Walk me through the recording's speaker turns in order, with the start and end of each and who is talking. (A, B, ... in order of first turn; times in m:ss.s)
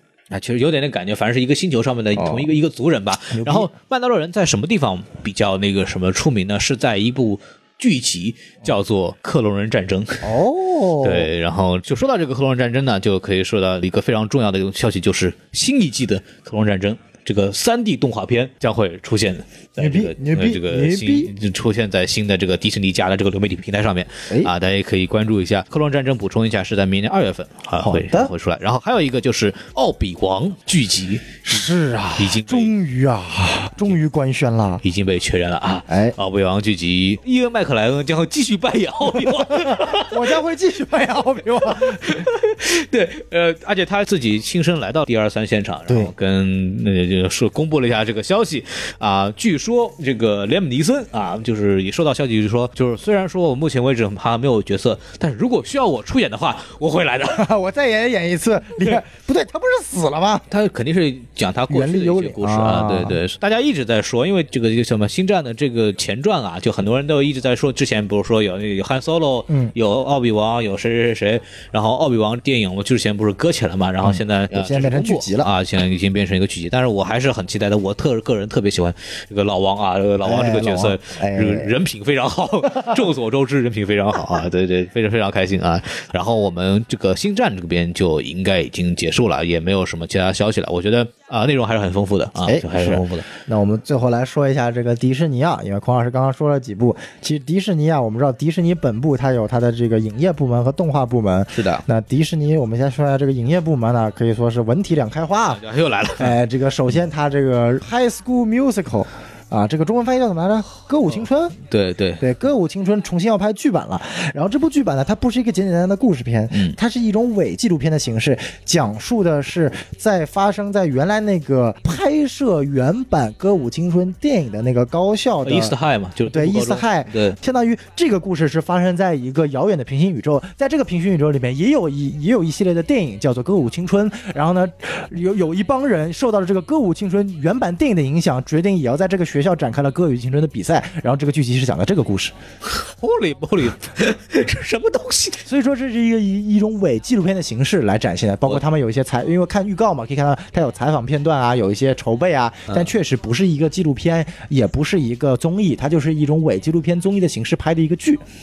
0:00.3-0:10.3 A
0:02.2-0:02.5 B
0:03.3-0:03.7 B
0:10.2-0:11.3 B
0:11.0-0:31.5 A
0:19.8-0:21.3 B
0:27.8-0:28.3 B
0:31.4-0:34.8 B
0:32.2-0:32.7 A
0:34.8-0:40.2 A
0:35.9-0:36.2 B
0:39.2-0:42.3 B
0:42.0-0:57.5 A
0:57.3-1:00.4 B
1:00.5-1:33.3 A
1:01.7-1:03.2 B
1:14.0-1:15.5 B
1:20.2-1:21.7 B
1:32.4-1:45.6 B
1:41.5-1:41.8 A
1:45.5-1:46.4 A
1:46.2-1:51.6 B
1:51.7-1:52.2 A
1:52.2-2:05.8 B
2:05.4-2:07.4 A
2:06.3-2:22.4 B
2:22.7-2:25.4 A
2:25.5-2:38.2 B